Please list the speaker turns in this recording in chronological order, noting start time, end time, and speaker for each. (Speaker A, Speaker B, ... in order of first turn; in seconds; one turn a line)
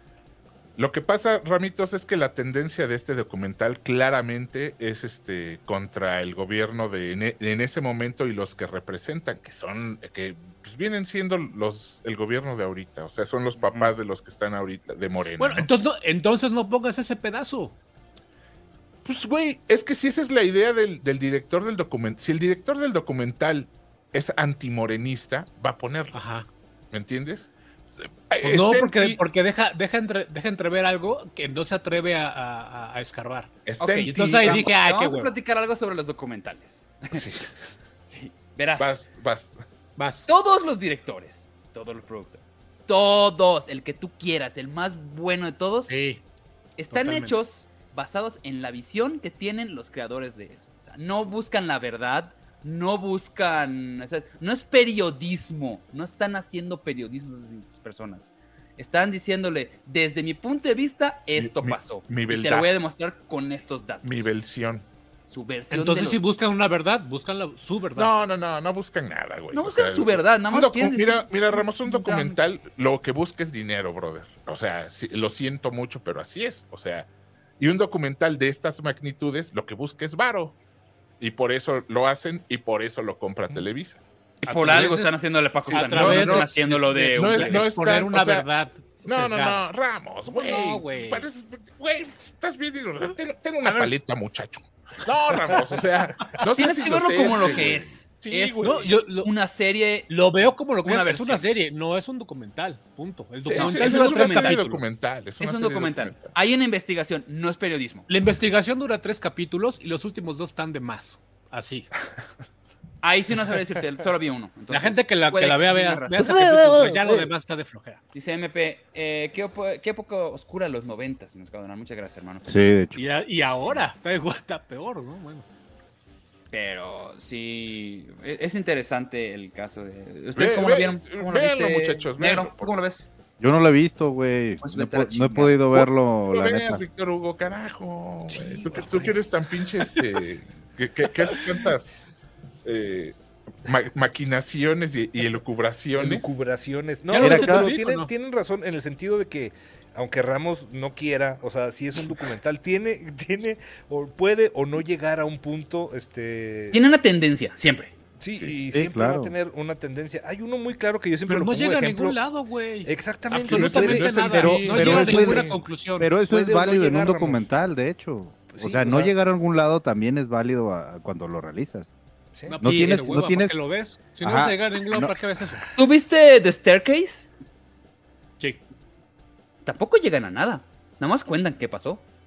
Speaker A: 0.8-15.7
Speaker B: 15.4-17.8
Speaker A: 19.0-26.2
Speaker B: 26.1-26.5
Speaker A: 26.9-27.5
Speaker A: 28.3-29.2
Speaker B: 28.4-33.5
Speaker A: 33.6-34.6
Speaker C: 33.8-37.2
Speaker B: 34.1-35.3
Speaker A: 37.1-37.4
Speaker C: 38.0-39.0
Speaker A: 38.8-39.6
Speaker B: 40.0-40.3
Speaker C: 40.3-45.9
Speaker B: 45.9-46.2
Speaker C: 46.8-64.3
Speaker B: 46.9-47.3
Speaker A: 61.4-62.7
Speaker A: 64.0-64.9
Speaker C: 65.3-66.2
Speaker B: 65.7-68.1
Speaker A: 68.0-77.1
Speaker C: 69.5-72.4
Speaker A: 77.6-80.6
Speaker A: 81.2-84.0
Speaker C: 84.4-87.7
Speaker B: 84.4-85.1
Speaker B: 85.7-89.6
Speaker A: 85.7-86.5
Speaker A: 87.1-88.5
Speaker A: 89.0-98.9
Speaker B: 90.2-91.3
Speaker B: 93.6-93.9
Speaker C: 96.5-100.1
Speaker B: 98.6-99.3
Speaker B: 100.1-104.8
Speaker C: 100.8-101.4
Speaker A: 103.4-106.3
Speaker C: 103.5-104.6
Speaker C: 105.4-108.1
Speaker B: 108.1-111.9
Speaker C: 113.0-116.9
Speaker B: 114.7-118.0
Speaker D: 116.3-117.2
Speaker C: 118.1-122.6
Speaker D: 122.5-123.0
Speaker B: 122.9-125.5
Speaker C: 123.5-123.9
Speaker C: 126.5-133.1
Speaker A: 130.3-132.7
Speaker D: 133.4-136.8
Speaker C: 134.6-135.7
Speaker A: 135.7-142.0
Speaker A: 142.6-146.4
Speaker E: 145.9-156.8
Speaker B: 147.1-148.1
Speaker D: 147.2-147.7
Speaker C: 156.7-157.9
Speaker E: 158.2-162.2
Speaker D: 158.7-159.3
Speaker B: 161.3-166.1
Speaker E: 162.8-165.5
Speaker A: 163.3-165.5
Speaker D: 164.3-171.9
Speaker E: 166.3-167.5
Speaker E: 168.5-169.1
Speaker B: 172.5-175.7
Speaker D: 172.6-173.6
Speaker D: 174.2-175.1
Speaker C: 175.8-177.3
Speaker C: 179.6-182.0